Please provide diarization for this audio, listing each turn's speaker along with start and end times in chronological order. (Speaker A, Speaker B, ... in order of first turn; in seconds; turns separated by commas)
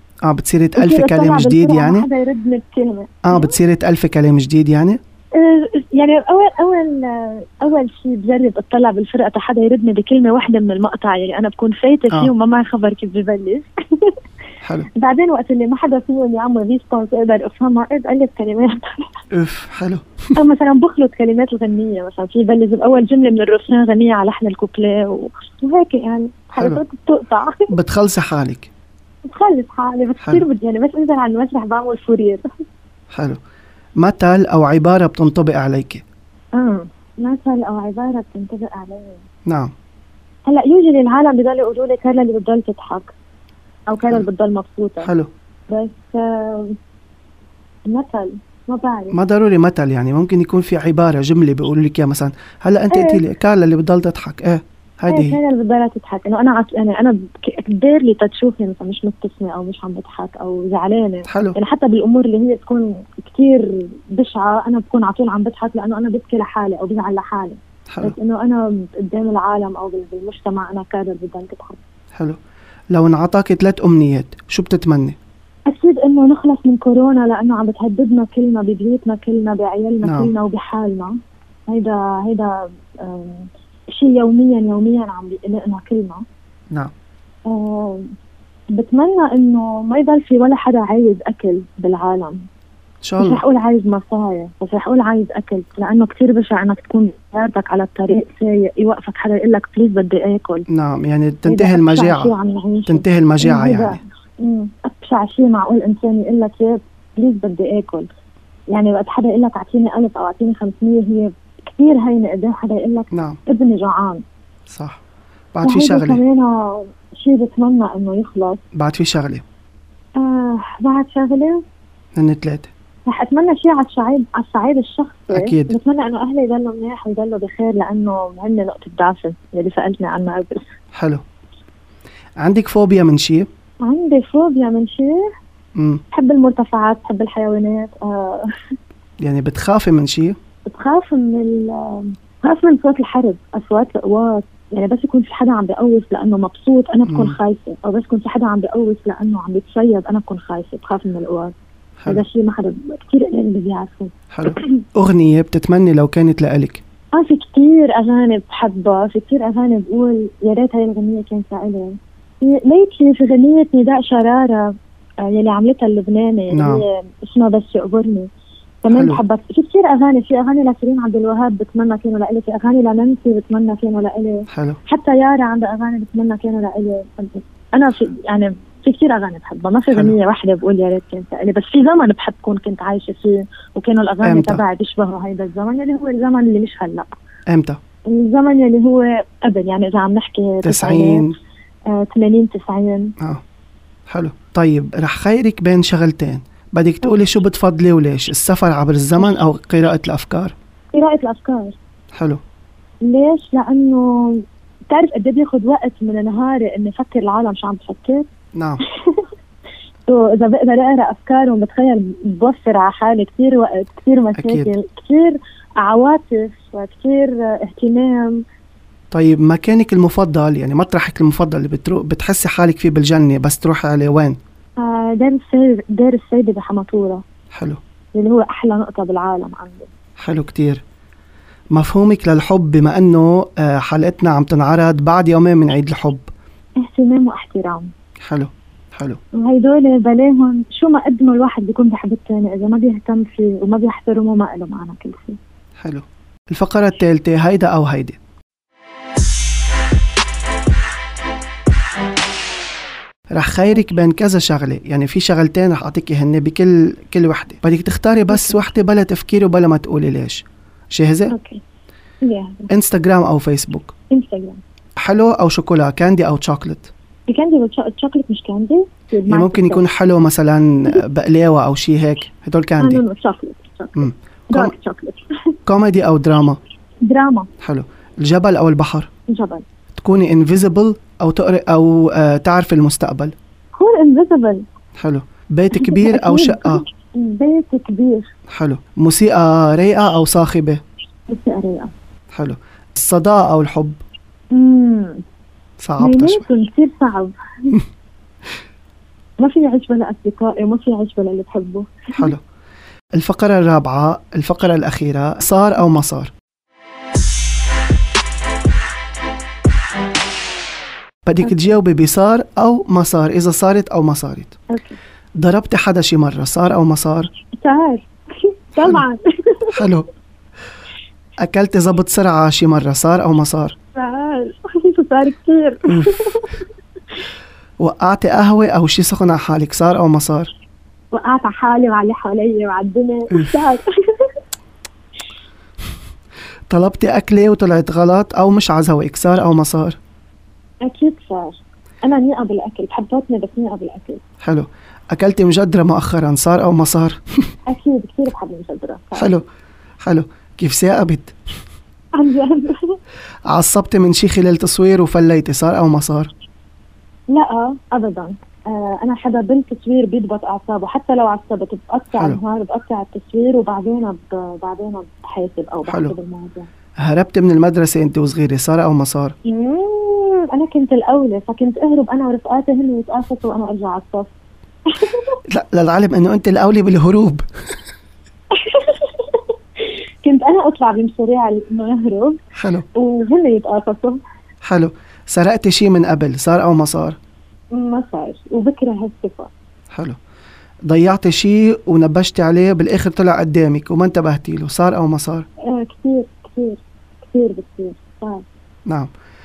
Speaker A: 0.3-2.1, Speaker B: 0.8-3.5, Speaker A: 3.2-5.0, Speaker B: 5.4-14.2, Speaker B: 15.0-19.1, Speaker A: 19.3-20.0, Speaker B: 20.4-27.7, Speaker A: 27.7-28.7, Speaker B: 29.3-32.4, Speaker A: 33.1-33.4, Speaker A: 34.0-36.0, Speaker B: 36.6-39.2, Speaker A: 39.5-39.7, Speaker B: 40.5-43.1, Speaker B: 43.9-45.1, Speaker A: 45.0-45.3, Speaker B: 45.7-46.8, Speaker B: 47.9-49.1, Speaker A: 49.1-55.4, Speaker B: 52.9-53.2, Speaker B: 55.1-71.8, Speaker A: 61.3-61.6, Speaker A: 67.9-68.2, Speaker A: 72.9-75.2, Speaker B: 75.7-81.1, Speaker A: 80.0-80.3, Speaker B: 81.7-86.2, Speaker B: 87.5-88.1, Speaker B: 88.7-92.4, Speaker A: 93.0-93.4, Speaker B: 93.2-100.7, Speaker A: 100.7-102.3, Speaker B: 101.5-108.1, Speaker A: 102.9-104.0, Speaker B: 108.7-114.2, Speaker A: 113.1-113.4, Speaker A: 114.7-115.0, Speaker A: 115.5-116.2, Speaker B: 115.7-118.6, Speaker A: 118.8-119.4, Speaker B: 120.2-121.6, Speaker A: 122.2-122.7, Speaker B: 123.1-130.7, Speaker A: 125.3-125.8, Speaker A: 131.0-131.2, Speaker A: 132.4-133.5, Speaker B: 133.8-135.2, Speaker A: 135.8-136.0, Speaker B: 136.1-138.5, Speaker A: 139.2-140.4, Speaker B: 140.7-151.5, Speaker A: 147.1-147.4, Speaker B: 152.1-154.8, Speaker A: 154.3-156.8, Speaker B: 157.2-164.7, Speaker B: 165.3-168.3, Speaker A: 166.5-166.8, Speaker B: 168.8-187.1, Speaker A: 168.9-169.2, Speaker A: 174.5-174.8, Speaker A: 179.9-180.2, Speaker A: 184.2-184.6, Speaker A: 187.5-187.8, Speaker B: 188.1-191.3, Speaker A: 190.6-191.3, Speaker B: 191.9-193.1, Speaker A: 194.1-200.5, Speaker B: 197.0-197.3, Speaker B: 200.9-201.8, Speaker A: 202.2-202.4, Speaker B: 203.1-208.3, Speaker A: 208.6-208.8, Speaker B: 208.9-209.3, Speaker B: 210.1-218.4, Speaker A: 214.4-214.7, Speaker A: 219.1-224.4, Speaker B: 224.8-227.2, Speaker A: 227.5-227.8, Speaker B: 228.2-229.9, Speaker A: 230.2-230.8, Speaker A: 231.7-236.3, Speaker B: 236.8-237.9, Speaker A: 238.3-239.2, Speaker B: 239.3-245.4, Speaker A: 245.8-248.2, Speaker A: 253.3-261.3, Speaker B: 258.3-258.6, Speaker B: 261.3-261.6, Speaker B: 262.2-262.7, Speaker A: 262.7-263.9, Speaker B: 264.1-264.6, Speaker A: 265.0-266.9, Speaker B: 267.3-269.9, Speaker A: 269.3-273.0, Speaker B: 272.8-275.2, Speaker A: 274.0-274.7, Speaker A: 275.7-276.6, Speaker B: 277.1-277.5, Speaker A: 277.6-279.1, Speaker B: 279.3-279.6, Speaker A: 279.9-283.3, Speaker B: 283.8-284.6, Speaker A: 285.0-286.8, Speaker B: 285.7-288.3, Speaker A: 288.5-290.8, Speaker B: 291.3-291.9, Speaker A: 292.3-294.0, Speaker B: 294.5-295.2, Speaker A: 295.8-296.4, Speaker B: 296.0-297.8, Speaker B: 299.4-302.3, Speaker A: 302.2-302.4, Speaker A: 303.2-306.3, Speaker A: 311.3-314.6, Speaker B: 311.4-311.7, Speaker B: 314.7-315.0, Speaker A: 315.4-317.3, Speaker B: 317.6-319.8, Speaker A: 319.7-320.1, Speaker A: 321.4-323.8, Speaker B: 324.0-326.6, Speaker A: 325.9-326.1, Speaker A: 327.8-330.5, Speaker B: 331.1-334.3, Speaker A: 333.3-333.6, Speaker A: 336.7-340.0, Speaker B: 340.8-344.2, Speaker A: 344.4-347.5, Speaker B: 347.7-349.4, Speaker A: 349.2-349.4, Speaker A: 350.0-351.3, Speaker B: 352.2-353.0, Speaker A: 353.5-356.3, Speaker B: 357.3-366.7, Speaker A: 362.1-362.4, Speaker A: 365.9-366.1, Speaker A: 367.0-369.4, Speaker B: 369.5-374.3, Speaker B: 374.9-375.3, Speaker A: 375.5-377.4, Speaker B: 378.5-384.2, Speaker A: 382.6-382.8, Speaker A: 384.7-387.2, Speaker B: 387.7-389.5, Speaker A: 389.9-390.2, Speaker A: 390.9-395.5, Speaker B: 395.7-398.4